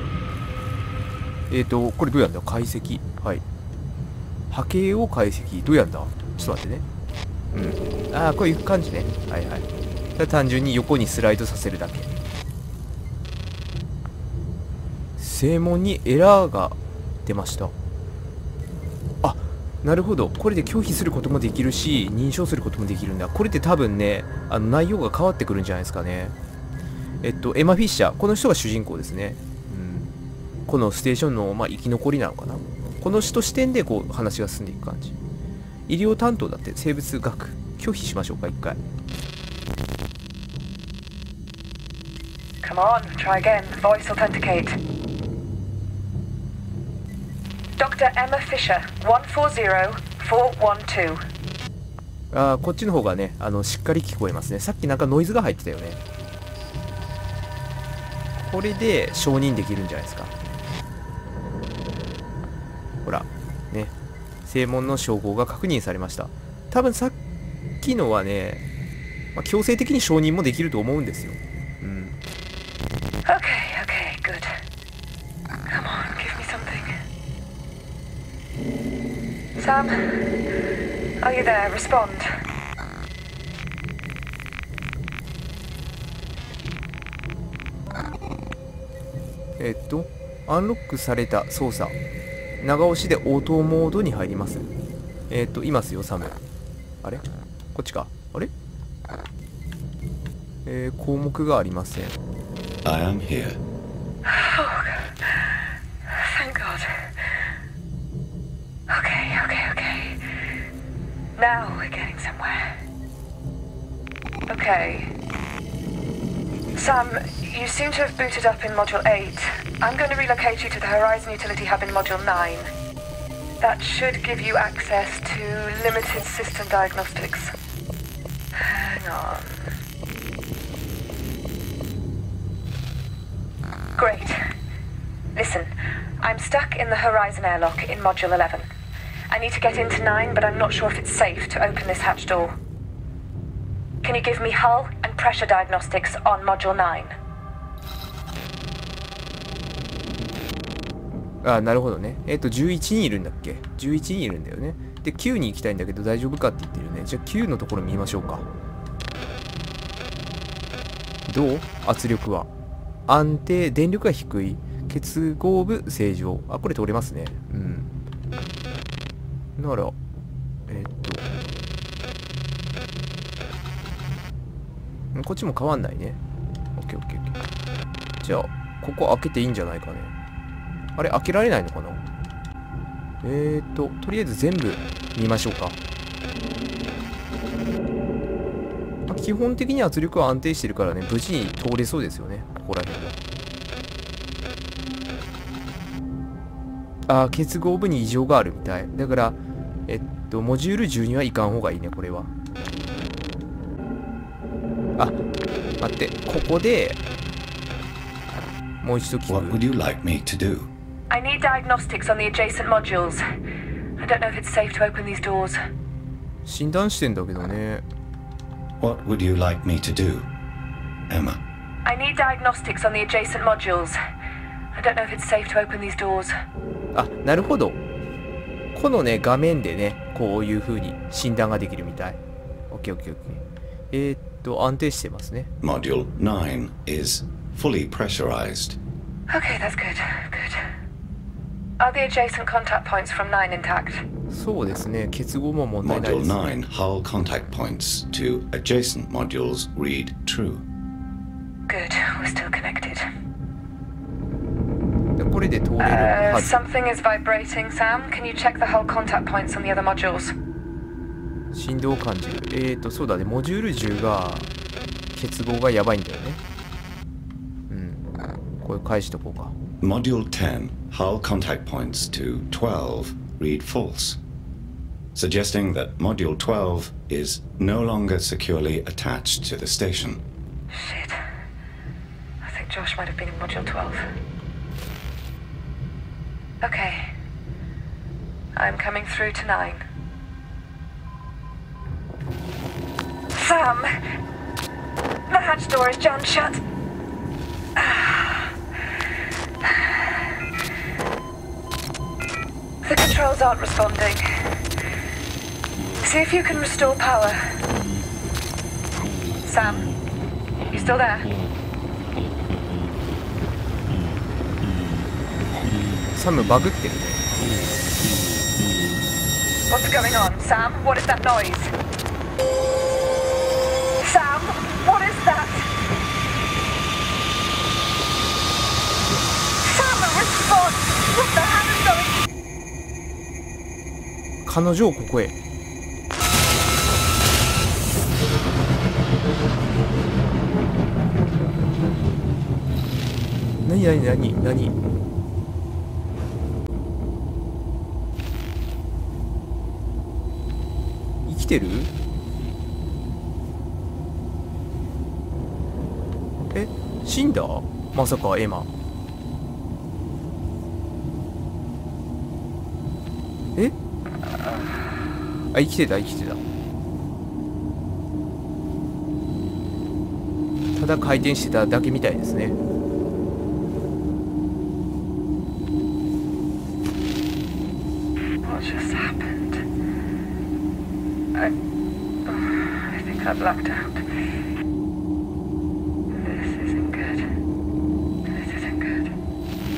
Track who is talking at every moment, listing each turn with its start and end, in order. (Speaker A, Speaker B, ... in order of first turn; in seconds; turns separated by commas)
Speaker A: 1.5-3.4, Speaker A: 4.5-6.8, Speaker A: 7.5-12.1, Speaker A: 15.2-17.7, Speaker A: 19.2-26.3, Speaker A: 27.2-30.1, Speaker A: 30.7-35.1, Speaker A: 35.9-38.8, Speaker B: 42.6-44.8, Speaker B: 47.8-51.2, Speaker A: 52.3-56.0, Speaker A: 58.4-60.3, Speaker A: 63.0-63.9, Speaker A: 64.5-67.2, Speaker A: 67.8-68.6, Speaker A: 69.3-72.2, Speaker B: 73.2-74.5, Speaker B: 75.7-76.9, Speaker B: 79.6-80.0, Speaker B: 81.2-82.3, Speaker A: 89.6-92.0, Speaker A: 92.6-94.7, Speaker A: 95.3-96.4, Speaker A: 97.0-98.5, Speaker A: 100.6-102.2, Speaker C: 102.8-103.6, Speaker B: 104.2-105.5, Speaker B: 106.1-107.1, Speaker B: 108.9-110.2, Speaker B: 111.4-112.7, Speaker B: 114.5-115.1, Speaker B: 116.8-122.7, Speaker B: 123.6-127.5, Speaker B: 128.6-129.7, Speaker B: 134.0-134.4, Speaker B: 135.3-138.7, Speaker B: 139.3-142.5, Speaker B: 144.0-147.1, Speaker A: 151.4-158.4, Speaker A: 161.3-162.5, Speaker A: 163.1-167.9, Speaker A: 169.6-169.9, Speaker A: 170.7-171.3, Speaker A: 175.1-176.2, Speaker A: 176.8-177.4, Speaker A: 178.2-180.1, Speaker A: 180.9-182.0, Speaker A: 183.2-185.8, Speaker A: 189.1-193.2, Speaker A: 197.1-202.3, Speaker A: 205.8-207.0, Speaker A: 208.8-209.6, Speaker C: 209.3-210.7, Speaker B: 211.1-213.2, Speaker B: 214.0-215.6, Speaker A: 216.4-217.8, Speaker C: 218.8-220.3, Speaker C: 221.1-221.4, Speaker B: 221.8-224.0, Speaker B: 224.7-226.3, Speaker A: 226.9-227.8, Speaker A: 228.7-232.2, Speaker A: 232.7-235.5, Speaker C: 235.6-238.8, Speaker B: 239.3-240.6, Speaker B: 241.8-244.0, Speaker A: 244.3-246.6, Speaker C: 245.8-250.6, Speaker B: 251.7-253.0, Speaker A: 255.2-256.5, Speaker B: 255.8-260.3, Speaker A: 261.5-264.5, Speaker A: 265.1-266.4, Speaker A: 267.7-268.0, Speaker A: 268.6-269.5, Speaker C: 269.8-274.2, Speaker C: 275.1-280.2, Speaker B: 280.7-281.2, Speaker B: 282.4-284.1, Speaker B: 286.6-287.1, Speaker B: 288.6-289.8, Speaker B: 293.3-293.9, Speaker B: 295.3-296.6, Speaker B: 297.8-298.5, Speaker B: 299.6-300.1, Speaker B: 302.8-304.2, Speaker B: 306.0-307.4, Speaker B: 309.4-309.9, Speaker B: 310.7-311.3, Speaker A: 316.1-317.3, Speaker B: 319.7-321.7, Speaker B: 324.0-325.7, Speaker B: 329.6-332.2, Speaker A: 334.4-335.3, Speaker A: 343.6-344.7, Speaker A: 351.2-351.9, Speaker A: 356.5-358.7, Speaker A: 365.5-366.4, Speaker A: 370.7-372.6, Speaker B: 378.4-379.6, Speaker B: 382.2-384.0, Speaker B: 386.1-387.2, Speaker B: 388.3-389.1